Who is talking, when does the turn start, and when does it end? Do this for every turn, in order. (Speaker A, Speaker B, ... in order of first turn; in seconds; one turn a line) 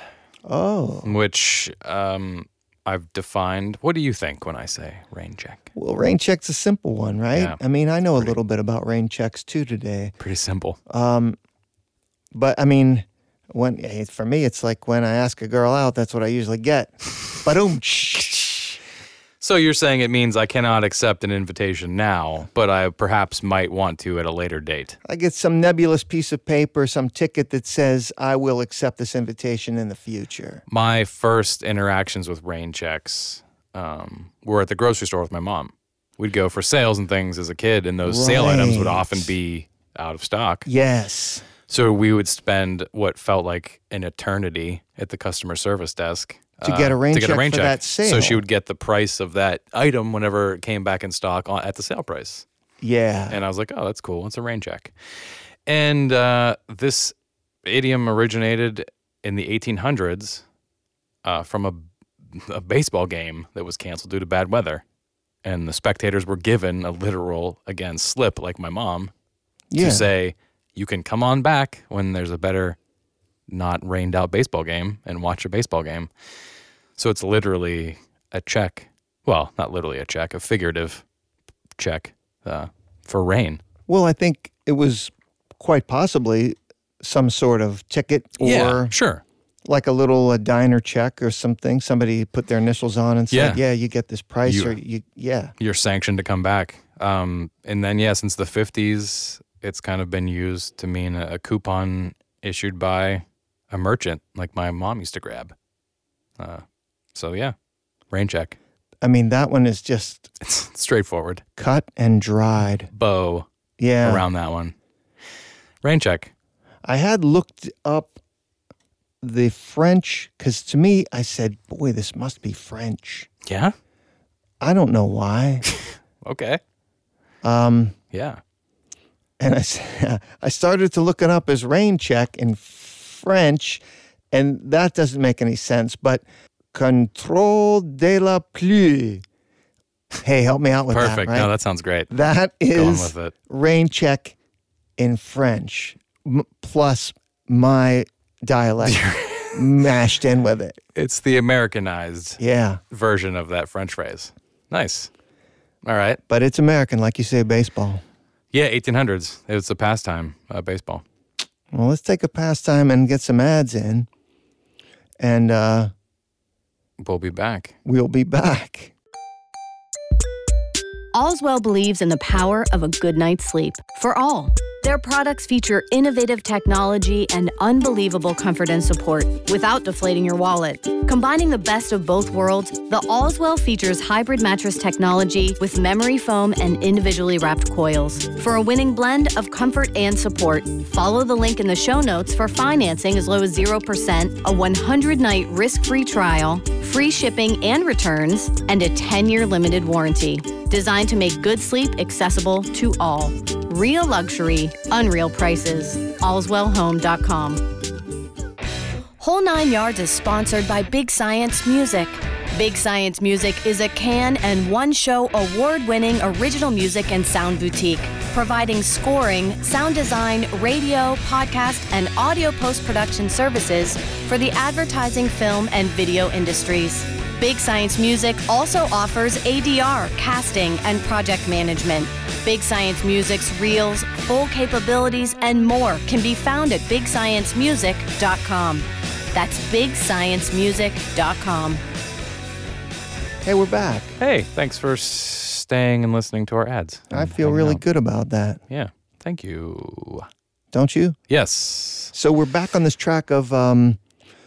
Speaker A: 0.5-1.1
Speaker B: 1.0-5.7
Speaker A: 5.7-10.1
Speaker B: 7.3-7.6
Speaker B: 10.2-10.8
Speaker A: 10.9-11.4
Speaker A: 12.3-18.4
Speaker B: 18.3-18.7
Speaker B: 19.4-25.0
Speaker A: 25.1-30.6
Speaker B: 30.7-40.7
Speaker A: 38.0-39.3
Speaker A: 40.6-41.4
Speaker B: 41.7-52.5
Speaker A: 46.6-48.4
Speaker A: 52.8-53.4
Speaker B: 53.3-54.9
Speaker B: 55.7-60.4
Speaker B: 61.2-64.8
Speaker B: 65.4-69.1
Speaker A: 69.7-70.1
Speaker B: 69.8-72.8
Speaker B: 73.5-76.1
Speaker B: 77.0-81.0
Speaker B: 81.8-83.6
Speaker A: 83.9-88.9
Speaker B: 88.4-89.2
Speaker A: 89.7-95.5
Speaker B: 93.3-93.6
Speaker B: 94.4-94.8
Speaker B: 95.6-105.5
Speaker B: 106.4-107.5
Speaker B: 108.1-108.6
Speaker A: 109.0-110.3
Speaker B: 110.4-111.4
Speaker A: 111.6-112.9
Speaker B: 112.9-113.5
Speaker A: 113.8-114.3
Speaker B: 114.0-114.7
Speaker B: 115.8-116.3
Speaker A: 116.8-118.2
Speaker A: 119.2-123.3
Speaker B: 123.5-123.7
Speaker A: 124.6-125.6
Speaker B: 125.7-126.6
Speaker A: 127.4-127.9
Speaker B: 128.1-128.4
Speaker A: 129.4-139.2
Speaker A: 140.2-141.5
Speaker B: 140.9-142.1
Speaker A: 142.1-144.4
Speaker B: 142.7-143.3
Speaker A: 145.0-150.7
Speaker B: 148.8-149.6
Speaker B: 150.9-155.1
Speaker A: 152.4-152.8
Speaker B: 155.8-156.2
Speaker A: 156.3-158.0
Speaker B: 158.5-161.0
Speaker A: 161.7-164.1
Speaker A: 165.2-165.9
Speaker B: 167.0-167.7
Speaker A: 167.8-168.9
Speaker C: 171.1-207.6
Speaker C: 209.2-241.8
Speaker A: 243.4-244.2
Speaker B: 244.2-247.8
Speaker A: 247.1-248.6
Speaker B: 248.7-250.3
Speaker A: 250.7-251.2
Speaker B: 251.3-252.1
Speaker A: 252.1-254.0